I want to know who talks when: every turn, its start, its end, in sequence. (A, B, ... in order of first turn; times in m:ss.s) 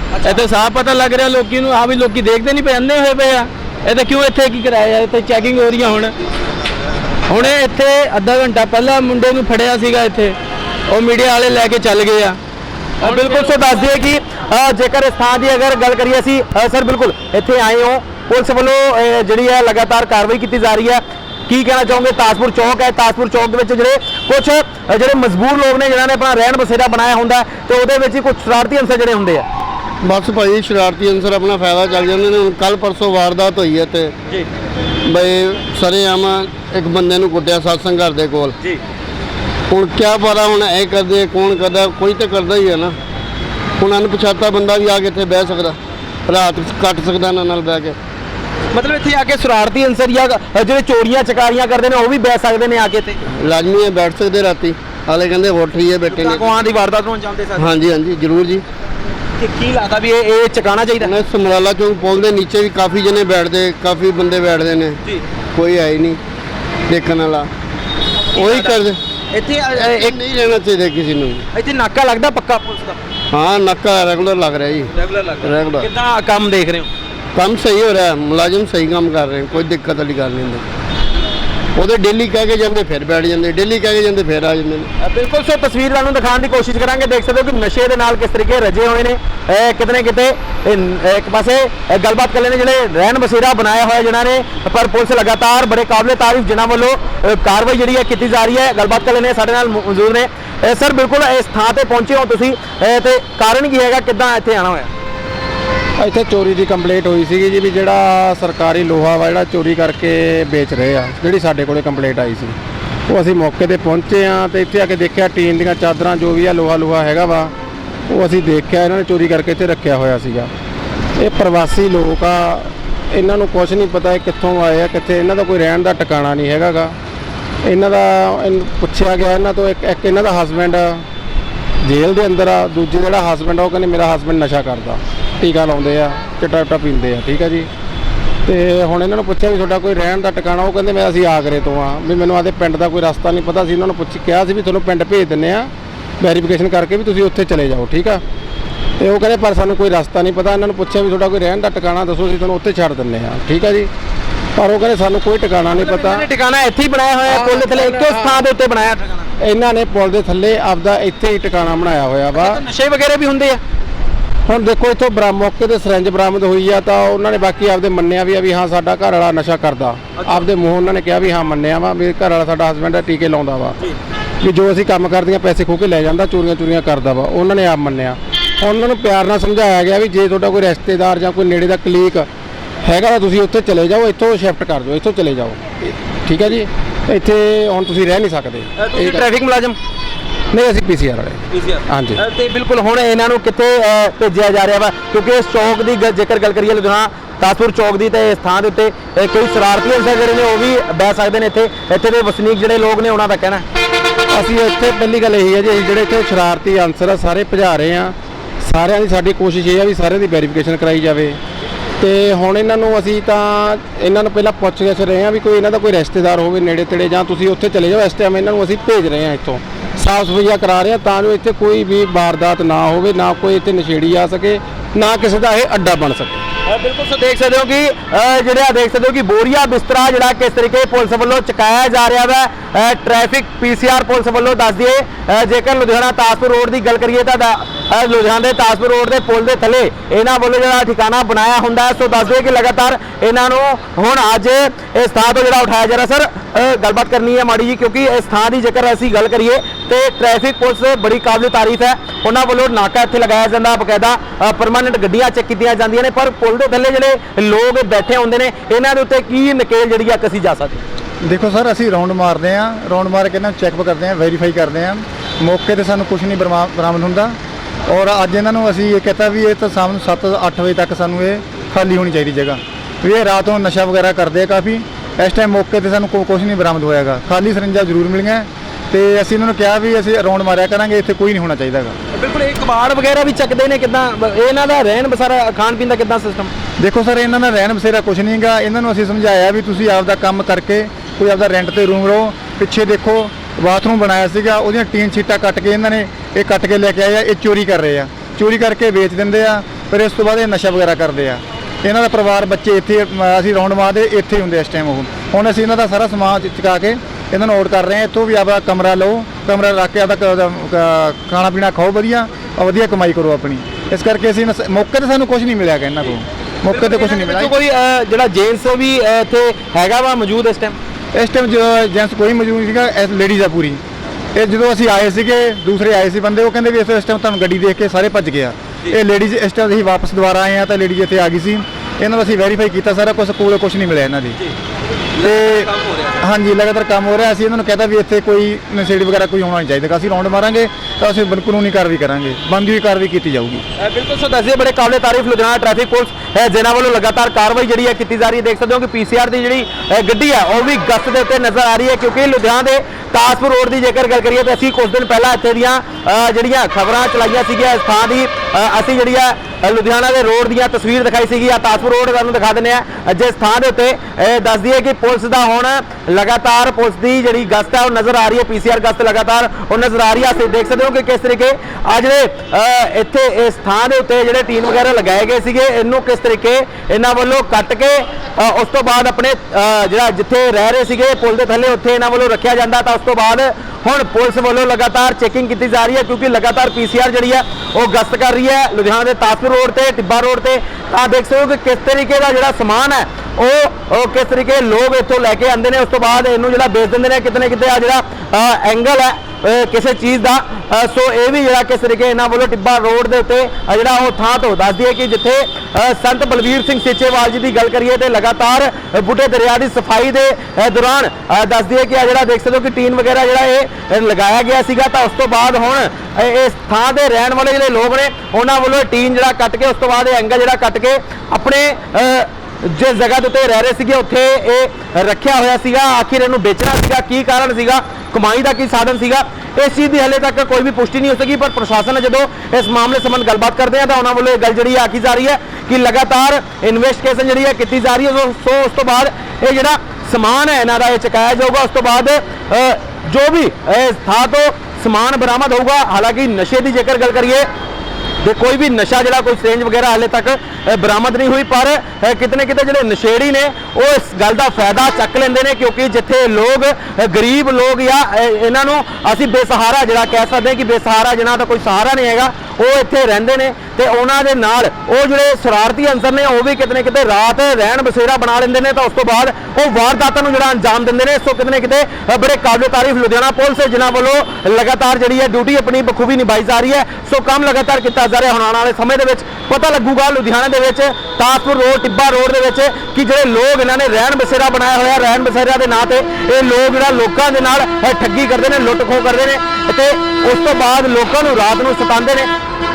0:00.2-0:06.1 A
0:07.3-0:07.7 B
0:07.5-0:10.4 A
0:10.9-0:12.3 A
0:13.0-0:29.5 B
0:30.0-0:34.1 C
0:35.0-0:38.6 C
0:39.7-0:43.0 C
0:43.8-0:48.0 C
0:48.7-0:53.2 B
0:53.4-0:56.5 C
0:56.1-0:57.6 B
0:57.6-0:58.6 C
0:59.4-1:01.1 B
1:01.0-1:05.0 C
1:05.5-1:06.2 C
1:06.9-1:07.5 C
1:08.4-1:09.0 C
1:08.4-1:08.8 B
1:09.3-1:10.2 B
1:09.7-1:11.4 C
1:11.5-1:13.0 B
1:13.3-1:15.9 C
1:15.0-1:16.9 B
1:17.3-1:20.6 C
1:21.8-1:24.9 C
1:25.0-1:44.9 B
1:46.0-1:52.6 D
1:53.1-1:57.5 D
1:58.1-2:00.5 D
2:01.2-2:07.0 D
2:07.6-2:11.1 D
2:11.8-2:17.7 D
2:18.4-2:28.2 D
2:29.0-2:33.9 D
2:34.6-2:36.3 D
2:35.8-2:39.3 B
2:39.4-2:42.6 D
2:42.4-2:43.6 B
2:44.5-2:53.8 D
2:54.4-3:02.3 D
3:02.8-3:09.2 D
3:08.8-3:09.8 B
3:10.5-3:12.2 D
3:11.5-3:23.6 B
3:24.3-3:31.4 D
3:32.0-3:46.4 D
3:46.7-4:20.8 B
4:21.2-4:27.4 E
4:27.9-4:42.0 E
4:42.1-4:46.5 B
4:46.8-5:17.5 E
5:16.7-5:20.8 B
5:21.1-5:23.8 E
5:24.4-5:34.4 E
5:35.2-5:36.1 B
5:35.2-5:43.6 E
5:43.8-7:27.5 B
7:28.2-8:12.3 B